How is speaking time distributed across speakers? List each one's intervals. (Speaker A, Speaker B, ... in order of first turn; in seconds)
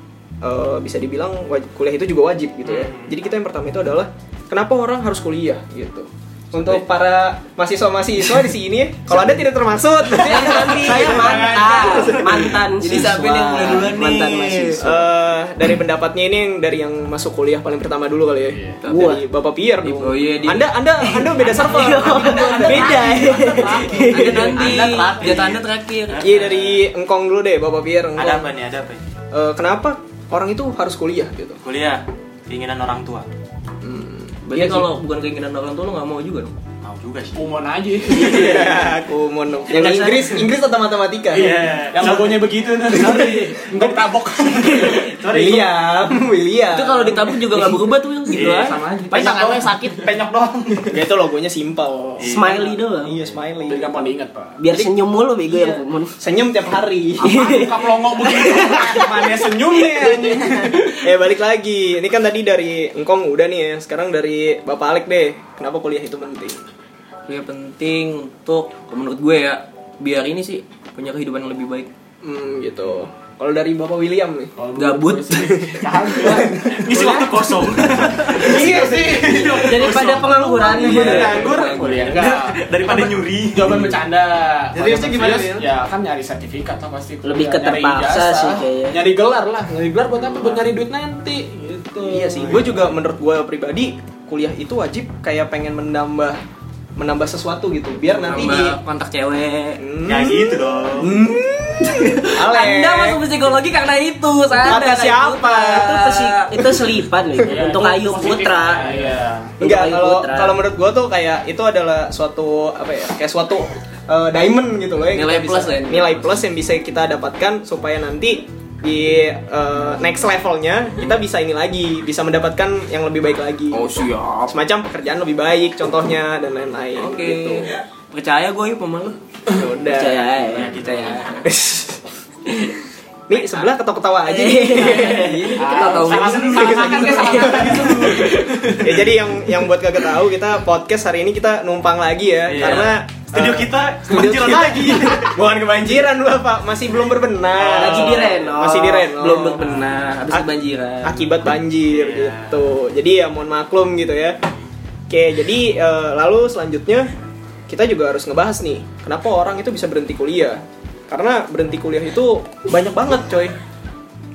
Speaker A: 0.4-13.9, 14.8-24.0, 26.2-28.5, 29.3-31.6, 34.5-34.8, 38.1-41.6, 42.9-43.3, 45.2-47.4, 50.9-52.5, 53.0-54.1, 55.5-57.4, 60.0-66.6, 72.2-74.5, 75.7-77.1, 78.4-79.7, 92.0-96.4, 97.0-98.8, 99.8-103.2, 104.7-106.1, 109.6-127.7, 129.5-130.3, 131.4-132.0, 133.3-149.6, 151.0-154.4, 155.1-157.1, 157.7-163.6
Speaker B: 2.6-3.1, 18.5-18.8, 37.4-38.7, 41.4-45.2, 48.4-50.0, 53.7-54.9, 57.2-61.1, 74.5-92.6, 107.4-109.5, 134.9-138.3, 147.8-148.3
Speaker C: 10.2-15.0, 18.9-19.2, 21.4-24.9, 38.1-38.6, 39.7-40.4, 52.2-53.1, 54.6-56.1, 57.2-59.1, 79.6-81.5, 87.2-89.0, 105.7-109.0, 109.6-110.6, 129.9-130.9, 132.5-132.7, 134.2-135.7, 137.2-138.8, 147.7-149.2
Speaker D: 10.6-10.9, 11.7-12.1, 12.8-14.8, 19.8-20.7, 24.1-26.3, 33.8-36.5, 46.7-50.0, 67.3-71.9, 74.8-75.8, 81.3-82.2, 98.1-99.8, 101.9-106.8, 115.1-116.4, 123.7-124.5, 127.0-129.2, 130.6-131.4, 135.5-137.5, 142.5-142.9, 149.1-151.5
Speaker E: 21.3-26.8, 28.1-29.0, 31.6-33.3, 36.8-37.5, 38.3-38.8, 41.3-44.0, 44.6-45.7, 48.3-51.0, 52.2-52.6, 76.8-84.0, 84.7-85.7, 92.4-92.9, 100.0-101.1, 130.5-131.4, 137.3-139.2, 142.5-145.4, 149.6-149.9, 151.8-152.7